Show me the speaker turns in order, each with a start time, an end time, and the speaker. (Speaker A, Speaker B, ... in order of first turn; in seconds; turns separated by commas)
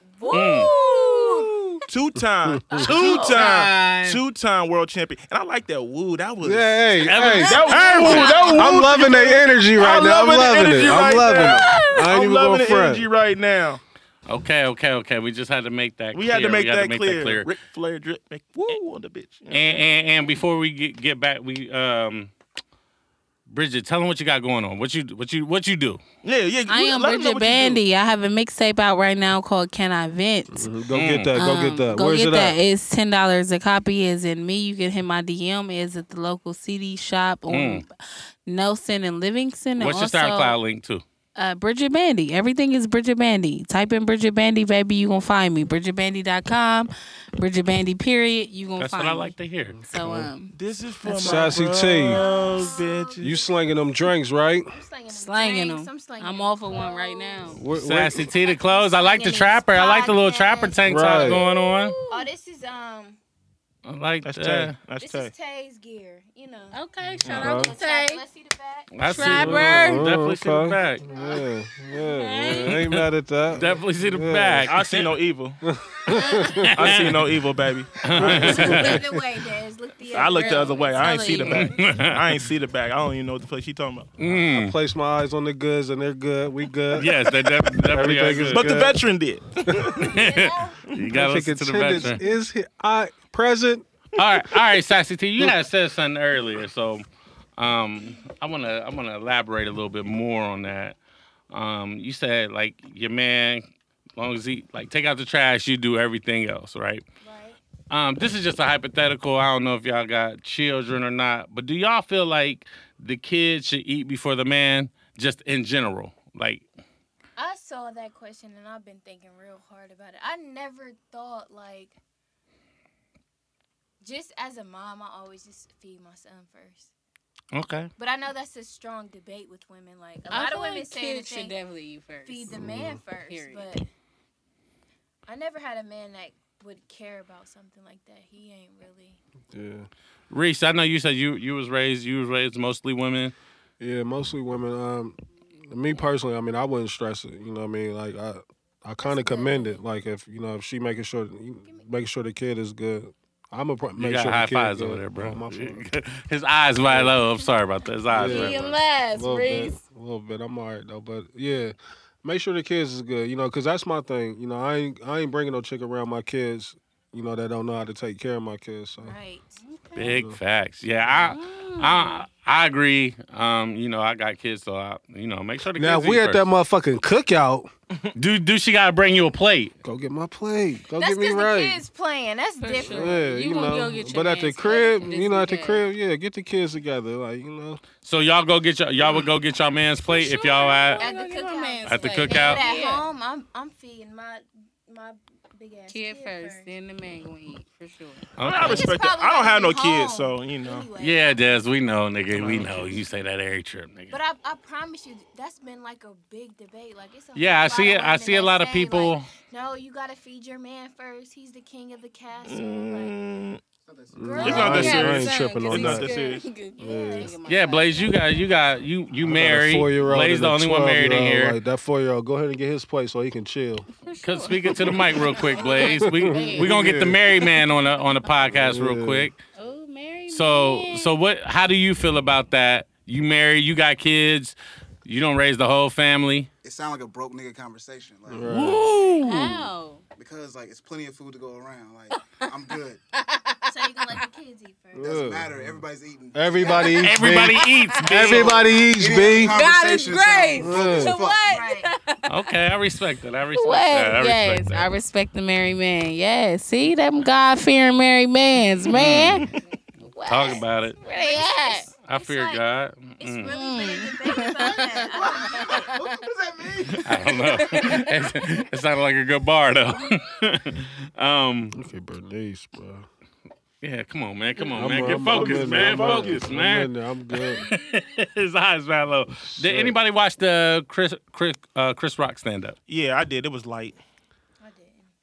Speaker A: 0.2-1.5, Speaker B: 0.2-1.5, Speaker C: 0.3-0.7, Speaker D: 1.9-6.9, Speaker E: 2.5-3.2, Speaker B: 2.8-3.5, Speaker C: 2.9-4.2, Speaker E: 6.4-13.1, Speaker C: 7.0-8.3, Speaker B: 7.3-8.9, Speaker D: 7.5-13.8, Speaker A: 7.7-8.6, Speaker B: 11.4-11.9, Speaker C: 14.3-17.5, Speaker D: 16.1-19.8, Speaker C: 19.5-22.3, Speaker C: 23.5-26.0, Speaker D: 26.2-27.8, Speaker B: 26.7-30.7, Speaker E: 30.5-32.6, Speaker C: 30.9-31.4, Speaker B: 31.4-40.6, Speaker C: 37.5-37.9, Speaker C: 39.8-41.0, Speaker B: 41.4-50.5, Speaker C: 48.8-49.9, Speaker E: 50.0-50.3, Speaker D: 50.5-53.4, Speaker E: 51.1-52.2, Speaker A: 51.2-53.5, Speaker E: 53.2-54.8, Speaker A: 54.7-57.6, Speaker B: 55.1-57.6, Speaker E: 57.6-58.3, Speaker C: 57.7-62.0, Speaker A: 58.2-61.0, Speaker E: 60.8-61.4, Speaker B: 61.2-62.3, Speaker A: 62.1-63.2, Speaker C: 63.9-64.8, Speaker D: 64.2-65.3, Speaker A: 65.0-66.8, Speaker B: 66.7-68.2, Speaker D: 67.2-67.5, Speaker E: 67.3-67.7, Speaker A: 67.4-68.9, Speaker C: 68.9-71.0, Speaker B: 69.0-70.1, Speaker E: 69.2-74.7, Speaker B: 72.0-72.8, Speaker C: 72.8-75.2, Speaker D: 74.6-75.6, Speaker E: 75.6-76.8, Speaker B: 76.1-76.6, Speaker C: 76.5-77.3, Speaker D: 76.7-79.0, Speaker C: 78.0-79.0, Speaker A: 78.2-81.7, Speaker D: 80.1-84.2, Speaker B: 80.2-81.7, Speaker C: 81.6-82.4, Speaker C: 84.2-84.8, Speaker E: 84.3-89.0, Speaker C: 86.9-88.8, Speaker D: 88.5-90.1, Speaker E: 89.7-90.0, Speaker A: 90.0-90.8, Speaker C: 90.0-92.2, Speaker E: 91.1-93.9, Speaker C: 94.2-97.0, Speaker C: 97.6-101.0, Speaker C: 101.5-103.7, Speaker C: 104.2-107.0, Speaker A: 107.2-107.6, Speaker C: 107.9-116.7, Speaker A: 117.4-122.0, Speaker A: 124.0-126.9, Speaker C: 127.5-127.9, Speaker A: 128.0-131.6, Speaker B: 130.3-132.5, Speaker A: 132.3-133.9, Speaker E: 132.5-133.0, Speaker B: 133.3-133.7, Speaker A: 135.3-139.2, Speaker E: 139.5-139.9, Speaker C: 140.3-143.3, Speaker E: 143.8-155.8, Speaker A: 149.0-149.8, Speaker C: 154.0-158.7, Speaker E: 156.8-157.2, Speaker E: 158.1-169.2, Speaker B: 158.1-159.8, Speaker A: 169.0-169.6, Speaker B: 169.6-170.1, Speaker C: 170.0-176.5, Speaker E: 170.0-170.4, Speaker B: 171.3-172.2, Speaker E: 175.8-177.7, Speaker C: 178.2-179.7, Speaker E: 179.8-181.8, Speaker A: 181.0-183.2, Speaker B: 182.6-185.8, Speaker E: 182.8-187.8, Speaker C: 188.0-191.1, Speaker B: 190.1-193.1, Speaker A: 191.0-196.7, Speaker C: 191.9-192.6, Speaker B: 195.9-198.3, Speaker C: 198.4-198.9, Speaker D: 198.4-200.9, Speaker A: 198.4-201.6, Speaker C: 201.0-204.2, Speaker D: 202.3-203.0, Speaker A: 204.1-213.2, Speaker C: 207.3-209.3, Speaker D: 212.5-213.6, Speaker F: 213.8-214.8, Speaker E: 214.1-216.1, Speaker A: 214.2-215.1, Speaker D: 214.4-216.4, Speaker B: 214.6-218.4, Speaker A: 216.8-218.4, Speaker E: 216.8-217.3, Speaker C: 217.5-221.6, Speaker E: 219.2-223.9, Speaker B: 224.0-227.5, Speaker C: 224.2-229.4, Speaker A: 225.6-225.9, Speaker E: 225.9-227.2, Speaker E: 228.5-229.3, Speaker B: 229.6-231.1, Speaker C: 230.3-236.5, Speaker F: 236.6-238.8, Speaker E: 238.3-238.9, Speaker C: 238.5-239.5, Speaker A: 238.8-239.2, Speaker B: 238.9-240.0, Speaker F: 240.2-243.0, Speaker B: 242.1-242.5, Speaker B: 243.2-244.2, Speaker A: 243.7-245.2, Speaker E: 244.9-245.8, Speaker F: 245.0-247.3, Speaker E: 246.3-249.6, Speaker C: 247.0-248.6, Speaker B: 247.3-248.4, Speaker F: 248.2-251.7, Speaker B: 249.3-252.5, Speaker E: 250.6-251.2, Speaker A: 251.4-251.9, Speaker C: 252.3-254.9, Speaker B: 253.5-261.9, Speaker C: 258.9-259.5, Speaker C: 260.3-261.0, Speaker A: 261.0-262.7, Speaker C: 262.0-263.5, Speaker A: 263.2-265.8, Speaker B: 263.5-266.0, Speaker F: 265.0-267.6, Speaker C: 267.0-271.8, Speaker B: 267.2-268.1, Speaker E: 271.7-273.1, Speaker C: 273.8-276.9, Speaker E: 274.8-277.7, Speaker D: 274.8-276.5, Speaker C: 277.5-282.8, Speaker E: 279.5-279.9, Speaker D: 282.9-284.0, Speaker A: 284.6-285.1